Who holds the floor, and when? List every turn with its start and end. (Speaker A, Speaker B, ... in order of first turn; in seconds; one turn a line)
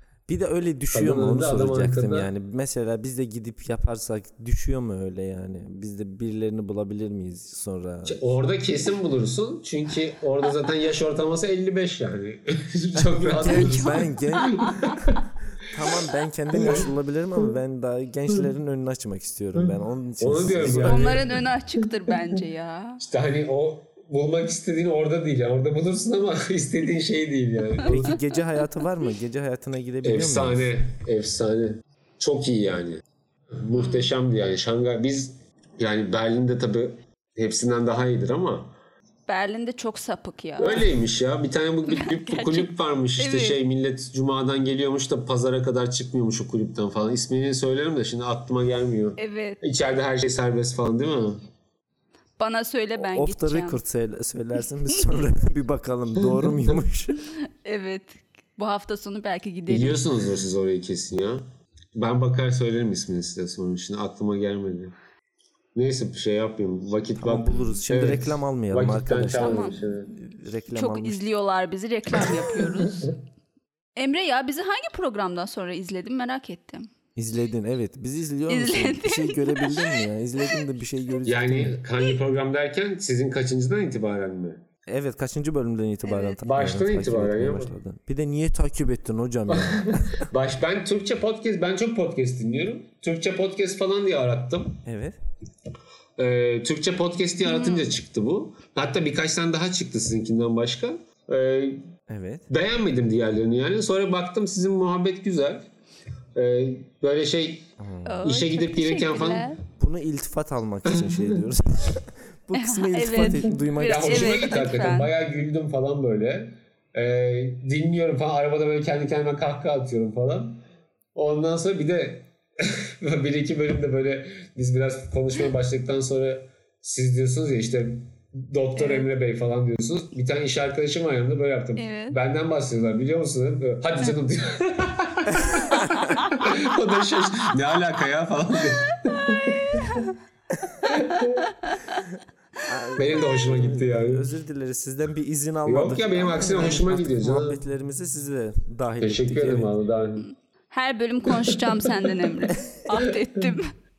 Speaker A: 0.3-8.3
Speaker B: 0.9-2.3
Speaker B: 8.1-15.2
Speaker A: 12.9-21.2
Speaker C: 13.4-14.8
Speaker B: 16.5-16.9
Speaker B: 19.6-22.3
Speaker C: 20.6-23.0
Speaker B: 23.0-28.2
Speaker A: 27.8-30.7
Speaker B: 30.0-38.7
Speaker C: 33.8-34.0
Speaker C: 39.3-40.9
Speaker B: 40.6-51.4
Speaker C: 41.9-43.6
Speaker C: 49.2-49.6
Speaker C: 52.4-53.8
Speaker A: 53.0-57.3
Speaker C: 57.6-60.0
Speaker B: 59.7-64.9
Speaker B: 65.7-70.1
Speaker A: 67.2-71.2
Speaker C: 69.4-69.8
Speaker C: 70.7-73.1
Speaker B: 72.2-73.1
Speaker C: 74.0-76.9
Speaker A: 77.2-81.8
Speaker C: 78.5-80.0
Speaker B: 81.2-84.6
Speaker A: 84.9-90.3
Speaker C: 86.0-86.4
Speaker B: 86.4-87.7
Speaker B: 89.5-94.8
Speaker A: 94.8-95.2
Speaker B: 96.2-101.8
Speaker C: 97.4-97.9
Speaker A: 102.1-102.5
Speaker B: 102.5-105.7
Speaker B: 106.3-107.7
Speaker A: 107.8-108.2
Speaker C: 108.1-109.6
Speaker B: 108.2-109.5
Speaker A: 109.8-114.4
Speaker B: 110.8-111.4
Speaker C: 112.5-115.1
Speaker B: 113.2-120.6
Speaker B: 121.1-140.0
Speaker C: 128.8-129.1
Speaker C: 131.8-132.2
Speaker A: 135.4-136.2
Speaker B: 140.8-141.5
Speaker A: 142.6-149.7
Speaker B: 143.0-144.3
Speaker B: 145.6-147.6
Speaker B: 149.0-150.2
Speaker C: 150.2-153.7
Speaker B: 151.3-151.9
Speaker B: 153.0-153.4